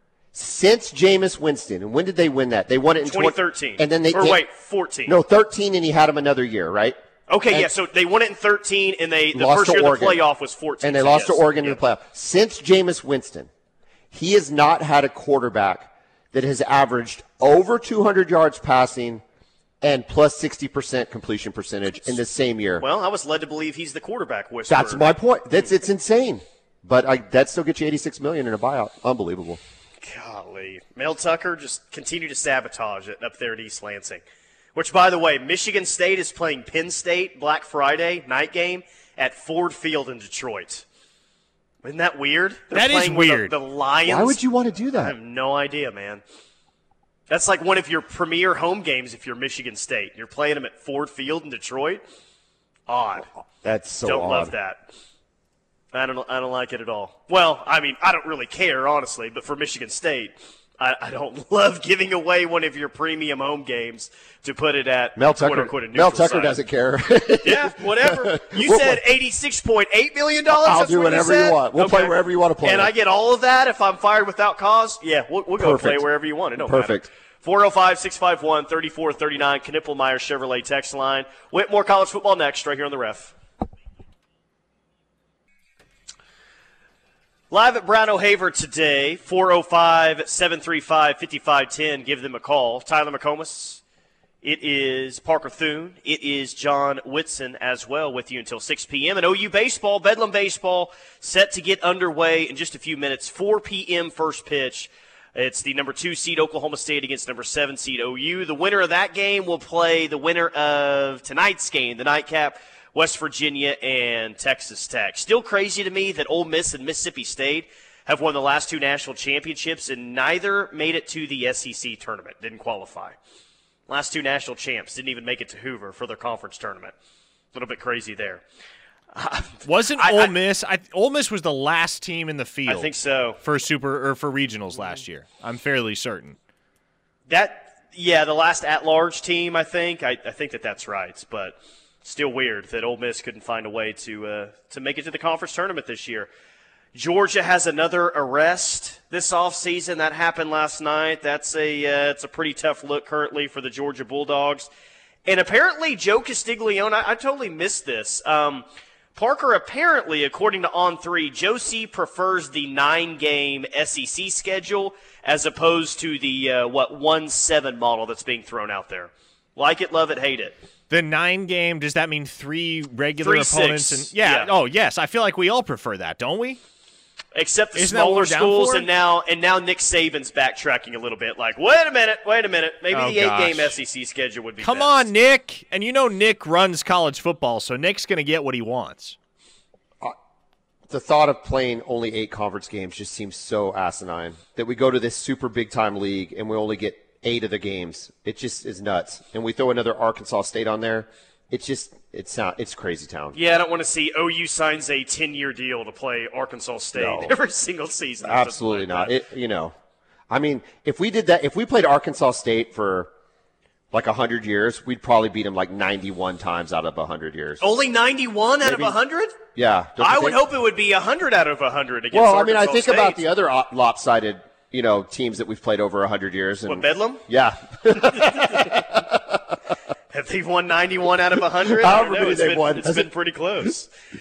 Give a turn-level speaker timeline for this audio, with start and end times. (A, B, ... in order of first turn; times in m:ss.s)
0:00.3-0:04.4 A
0:03.0-0:05.2 B
0:05.0-0:07.0 A
0:07.3-0:11.8 B
0:09.3-0:10.2 A
0:10.8-0:13.5 A
0:14.1-0:19.2 A
0:19.8-0:22.8 A
0:22.8-0:25.1 B
0:24.7-0:29.6 A
0:30.0-0:34.2 B
0:34.7-0:40.8 B
0:41.8-0:44.4 B
0:42.7-0:43.5 C
0:44.1-0:45.1 A
0:44.9-0:46.2 B
0:47.3-0:52.0 B
0:52.9-0:53.3 B
0:53.6-0:54.5 A
0:54.0-0:54.8 B
0:55.9-1:06.6 B
1:05.2-1:09.0 A
1:07.4-1:23.3 B
1:10.5-1:12.9 A
1:15.6-1:16.0 A
1:16.6-1:17.0 A
1:27.5-1:33.8 B
1:34.4-2:03.2 B
2:03.9-2:06.9 B
2:07.5-2:08.4 B
2:09.1-2:10.3 B
2:09.6-2:16.4 C
2:12.6-2:13.4 B
2:17.3-2:26.3 B
2:26.9-2:34.7 B
2:35.2-2:50.6 B
2:50.9-2:56.6 C
2:53.2-2:54.5 B
2:57.3-3:05.1 B
2:57.7-2:58.9 C
3:02.9-3:03.8 C
3:04.6-3:09.2 C
3:10.9-3:23.4 A
3:23.3-3:29.1 B
3:27.0-3:27.3 A
3:28.2-3:29.7 A
3:30.3-3:33.1 A
3:33.9-3:37.6 A
3:37.6-3:39.4 B
3:38.6-3:38.9 A
3:39.5-3:40.4 A
3:40.0-3:43.2 B
3:42.1-3:49.6 A
3:46.6-3:47.2 B
3:50.1-3:53.9 B
3:51.6-3:53.1 A